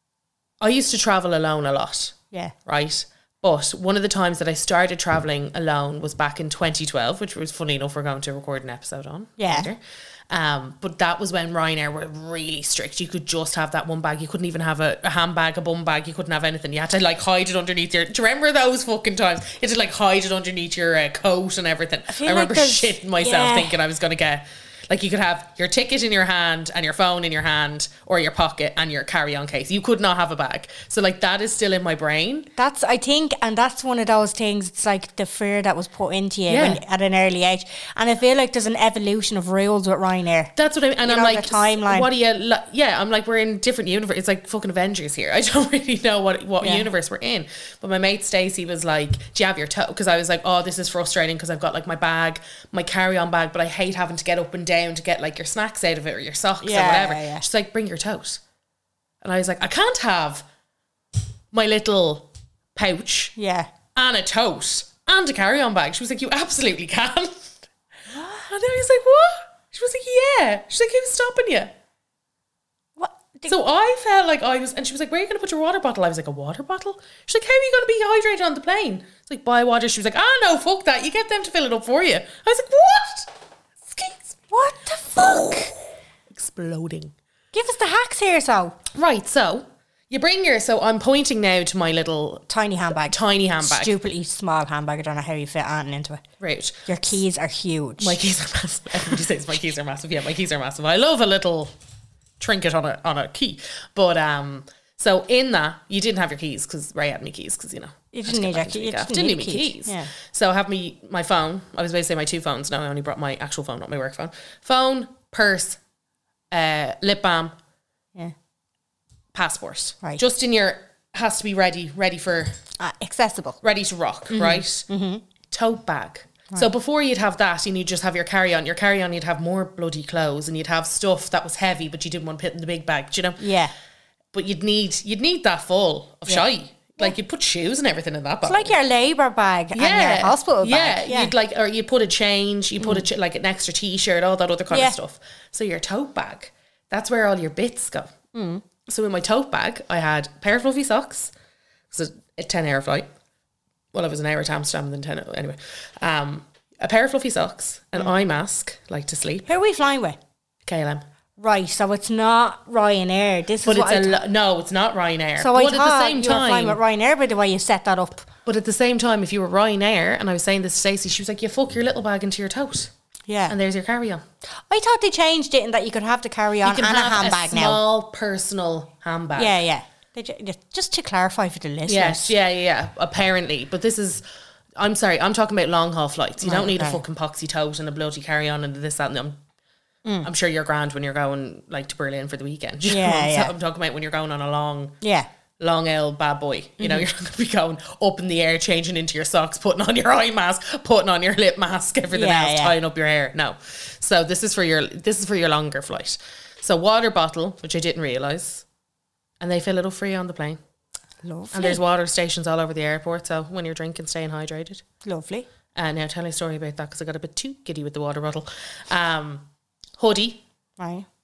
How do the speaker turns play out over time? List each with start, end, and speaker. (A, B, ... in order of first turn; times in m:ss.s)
0:00.6-0:32.5 A
0:09.4-0:09.7 B
0:22.1-0:23.8 B
0:32.6-0:40.5 B
0:36.5-0:36.8 A
0:40.5-0:58.4 A
0:41.0-0:42.1 B
0:46.6-0:46.9 B
0:56.6-0:57.4 B
0:59.2-1:00.5 A
1:01.5-1:03.3 A
1:03.4-1:03.7 B
1:03.9-1:07.6 A
1:08.1-1:08.5 B
1:08.4-1:11.7 A
1:13.0-1:13.6 B
1:13.5-1:24.4 A
1:24.5-1:25.7 B
1:25.2-1:25.7 A
1:26.3-1:27.1 A
1:27.5-1:28.8 B
1:28.9-1:32.5 A
1:32.5-1:36.2 B
1:33.0-1:34.0 A
1:36.4-1:36.9 A
1:36.8-1:38.2 B
1:38.0-1:41.7 A
1:42.4-1:55.8 A
1:48.1-1:50.1 B
1:56.5-1:57.6 A
1:59.3-2:02.6 A
2:02.8-2:03.6 B
2:03.6-2:04.9 A
2:04.3-2:05.2 B
2:05.5-2:13.4 A
2:13.4-2:13.7 B
2:14.3-2:18.8 A
2:18.4-2:21.3 B
2:19.7-2:28.1 A
2:22.8-2:23.1 B
2:24.7-2:25.0 B
2:28.3-2:28.6 B
2:28.8-2:31.3 A
2:31.9-2:33.1 A
2:33.9-2:39.5 A
2:39.4-2:40.2 B
2:40.6-2:41.0 A
2:41.4-2:44.2 B
2:43.6-2:46.8 A
2:45.4-2:48.3 B
2:48.4-2:52.9 A
2:53.3-2:53.6 B
2:53.5-2:54.2 A
2:54.7-2:57.8 B
2:56.6-2:59.6 A
2:59.4-3:02.3 B
3:01.9-3:04.2 A
3:04.8-3:09.4 A
3:06.4-3:07.0 B
3:10.0-3:10.3 B
3:10.2-3:15.0 A
3:12.9-3:13.5 B
3:15.0-3:15.3 B
3:15.6-3:28.6 A
3:16.8-3:17.0 B
3:22.1-3:22.8 B
3:29.4-3:30.6 A
3:31.2-3:31.8 B
3:31.5-3:34.8 A
3:35.0-3:35.5 B
3:35.7-3:39.4 A
3:40.0-3:40.4 A
3:40.8-3:41.1 B